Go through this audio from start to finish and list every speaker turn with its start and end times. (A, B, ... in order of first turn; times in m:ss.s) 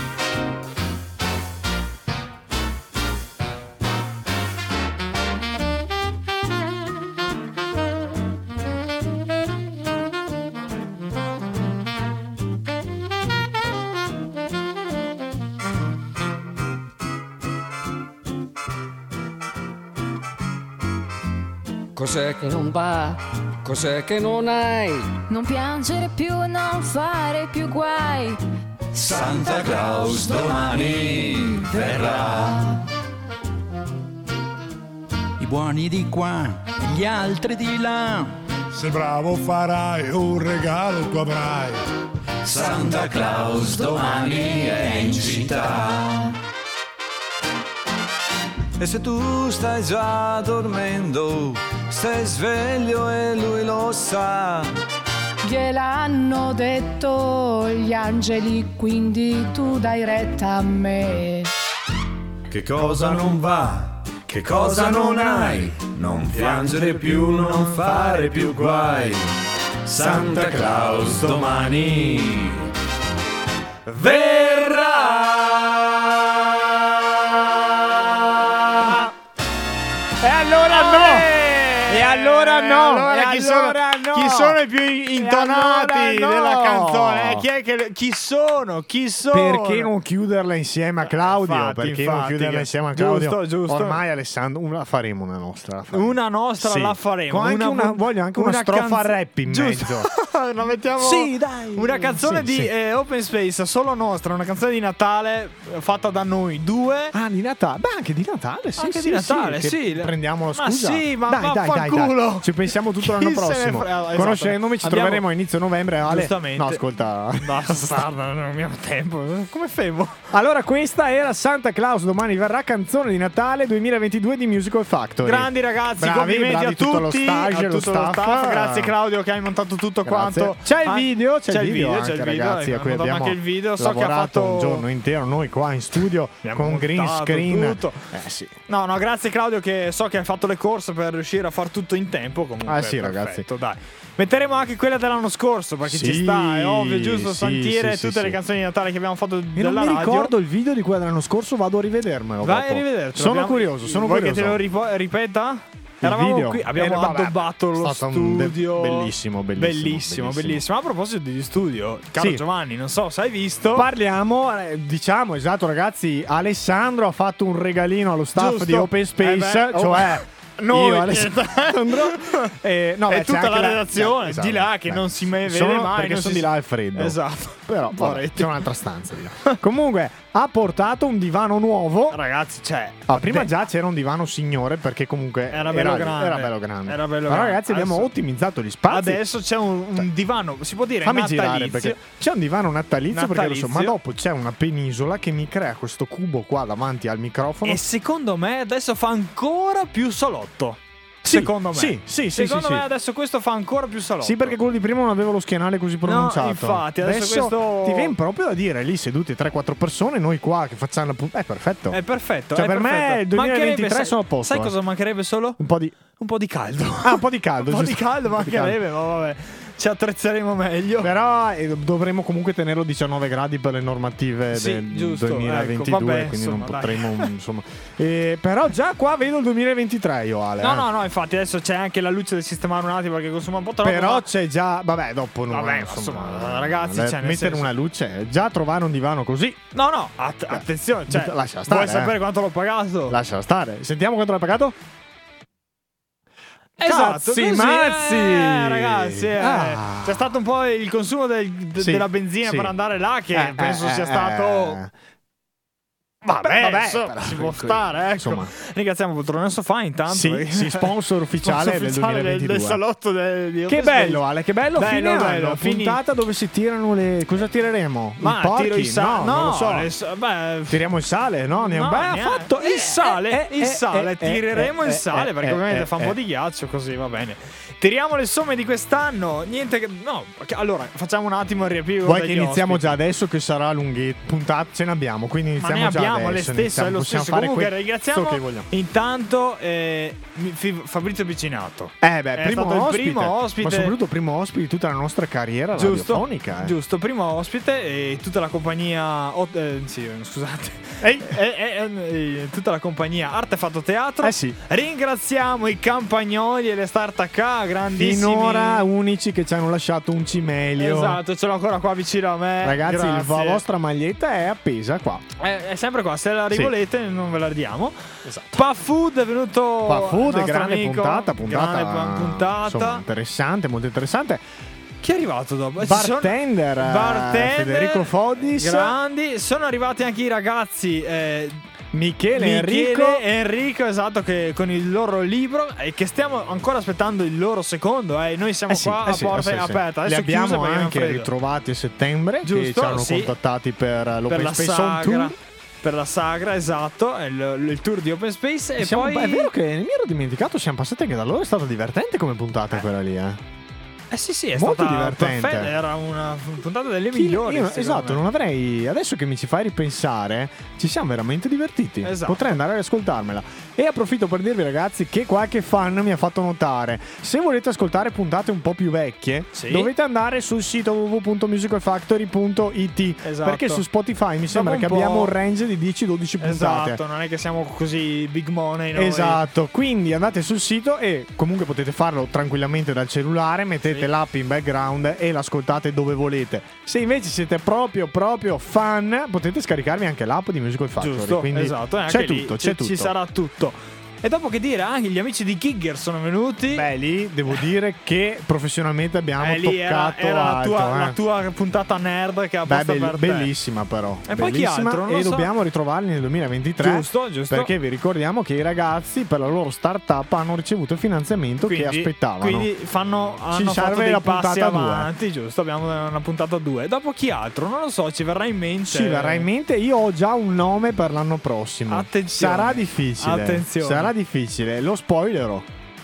0:22.0-0:25.1 A
0:25.3-0:28.4 B
0:28.9-0:32.7 C
0:35.4-0:38.4 D
0:38.7-0:41.8 E
0:42.4-0:46.3 C
0:48.8-0:54.7 C
0:55.4-1:01.5 F
1:02.5-1:09.2 C
1:04.5-1:05.7 G
1:06.3-1:08.2 G
1:09.9-1:12.5 C
1:10.0-1:11.0 G
1:13.9-1:15.4 H
1:14.0-1:15.9 G
1:17.5-1:19.0 G
1:20.2-1:24.6 G
1:20.7-1:21.3 H
1:21.8-1:29.9 H
1:25.1-1:27.5 G
1:29.3-1:40.1 G
1:31.0-1:34.0 H
1:35.9-1:47.1 H
1:41.0-1:42.7 G
1:47.1-1:58.0 G
1:48.8-1:55.2 H
1:56.1-1:56.8 H
1:57.4-2:00.2 H
2:00.3-2:08.9 G
2:05.2-2:14.8 H
2:10.0-2:18.5 G
2:16.4-2:18.1 H
2:18.7-2:30.3 H
2:22.6-2:23.5 G
2:25.9-2:28.4 G
2:29.6-2:34.6 G
2:32.4-2:43.9 H
2:36.0-2:40.6 G
2:42.2-2:42.4 G
2:43.7-3:02.2 G
2:48.4-2:52.5 H
2:53.1-2:58.6 H
3:02.1-3:03.5 H
3:03.1-3:09.2 G
3:05.5-3:08.1 H
3:08.9-3:12.0 H
3:11.0-3:17.8 G
3:13.1-3:14.0 H
3:17.6-3:24.6 H
3:21.3-3:22.8 G
3:24.2-3:32.0 G
3:26.0-3:28.1 H
3:31.9-3:35.6 H
3:32.5-3:34.8 G
3:35.6-3:36.0 G
3:36.2-3:41.1 H
3:37.0-3:38.8 G
3:41.0-3:50.9 G
3:44.5-3:47.3 H
3:50.6-3:54.3 H
3:53.8-3:59.6 G
3:55.5-3:57.7 H
3:59.7-4:03.2 H
4:00.5-4:02.2 G
4:03.1-4:04.8 G
4:06.8-4:10.3 G
4:06.8-4:14.8 H
4:11.8-4:12.7 G
4:13.3-4:14.9 G
4:16.2-4:20.9 H
4:16.4-4:18.5 G
4:20.1-4:22.8 G
4:21.4-4:24.2 H
4:23.7-4:29.9 G
4:24.8-4:26.0 H
4:28.2-4:30.8 H
4:30.7-4:36.2 G
4:31.6-4:43.0 H
4:42.0-4:48.7 G
4:45.6-4:53.9 H
4:52.0-4:56.7 G
4:55.8-5:08.9 H
5:01.0-5:01.3 G
5:04.2-5:04.6 G
5:07.9-5:11.2 G
5:10.8-5:13.6 H
5:12.6-5:15.2 G
5:15.4-5:18.0 H
5:18.2-5:18.6 G
5:18.5-5:23.0 H
5:19.9-5:24.5 G
5:25.0-5:31.6 H
5:25.8-5:29.0 G
5:31.9-5:33.2 G
5:32.4-5:41.3 H
5:38.7-5:45.4 G
5:42.4-5:43.3 H
5:44.3-5:49.5 H
5:48.8-5:53.4 G
5:54.1-5:58.2 H
5:54.6-5:55.7 G
5:57.1-6:17.0 G
6:02.0-6:02.6 H
6:09.5-6:09.9 H
6:13.2-6:13.8 H
6:14.5-6:15.3 H
6:16.4-6:19.4 H
6:18.9-6:33.1 G
6:31.0-6:36.9 H
6:36.7-6:41.2 G
6:39.4-6:43.5 H
6:42.7-6:52.7 G
6:44.3-6:45.5 H
6:46.8-6:47.7 H
6:51.7-6:59.5 H
6:53.5-6:55.1 G
6:58.9-7:05.7 G
7:01.9-7:04.1 H